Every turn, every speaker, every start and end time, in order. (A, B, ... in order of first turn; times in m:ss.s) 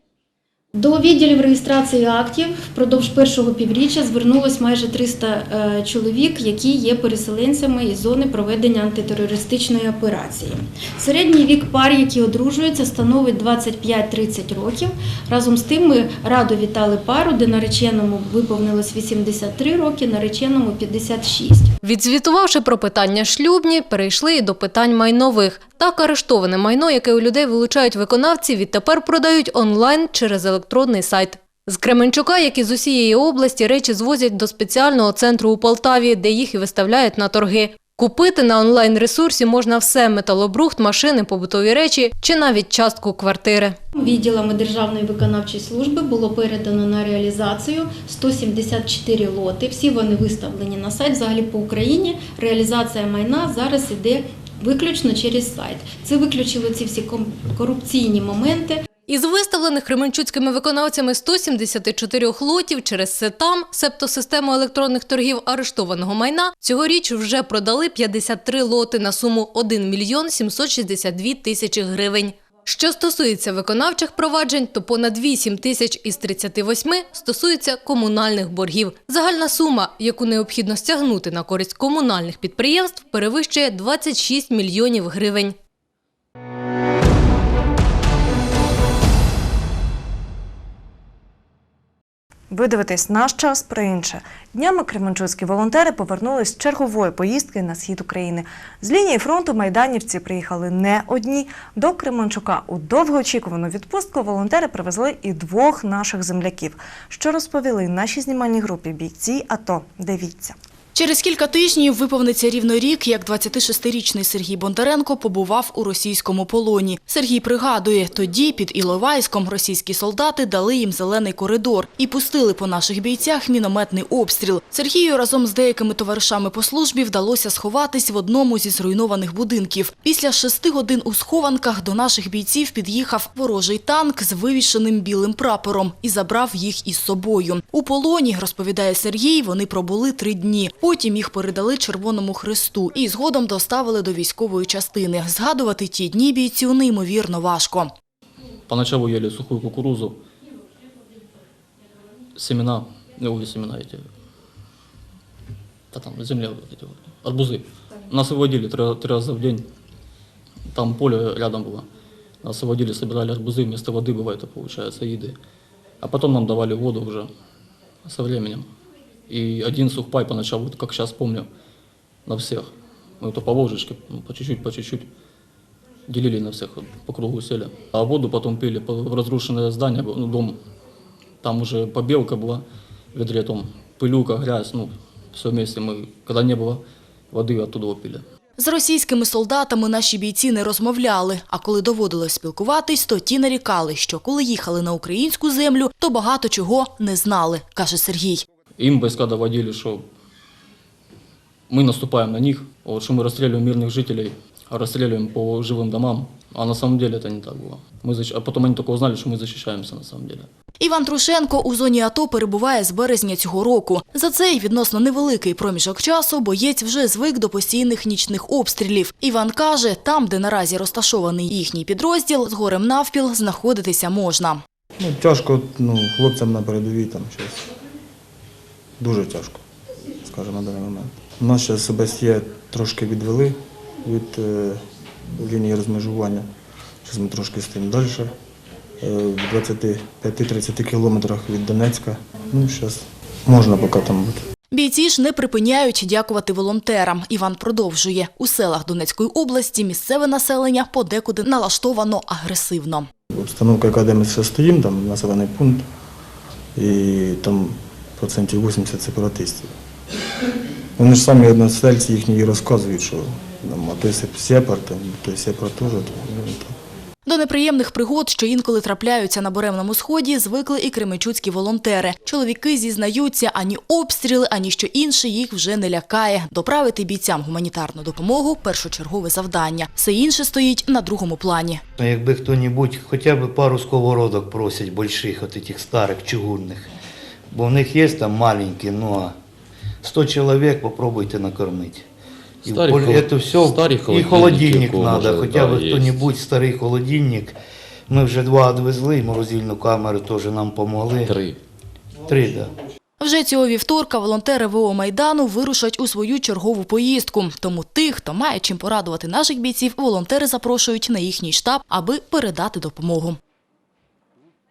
0:00.7-0:21.7 A
0:21.8-0:43.8 B
0:44.0-0:58.8 A
0:59.1-1:25.6 B
1:32.5-1:50.6 C
1:50.9-2:27.9 D
2:28.7-2:30.2 E
2:32.4-2:34.1 E
2:35.9-2:39.7 E
2:40.7-2:41.9 E
2:42.4-2:45.4 E
2:46.0-2:47.3 E
2:48.0-2:48.7 E
2:49.3-2:51.5 E
2:52.2-2:55.1 E
2:56.1-3:00.6 E
3:01.4-3:08.2 E
3:08.6-3:18.4 D
3:18.8-3:20.0 E
3:21.7-3:30.5 E
3:30.8-3:44.6 D
3:45.0-3:47.6 F
3:49.0-3:49.6 F
3:50.2-3:54.8 F
3:55.4-3:56.5 F
3:57.0-3:58.3 F
3:59.0-4:04.4 F
4:04.7-4:13.1 D
4:13.3-4:15.9 F
4:16.7-4:19.7 F
4:21.0-4:26.8 F
4:27.2-4:41.8 D
4:42.0-4:46.9 G
4:47.5-4:49.3 G
4:50.0-4:52.0 G
4:52.6-4:57.6 G
4:52.7-4:56.2 H
4:58.1-5:01.4 G
5:01.3-5:01.6 H
5:02.3-5:02.7 G
5:03.2-5:13.4 D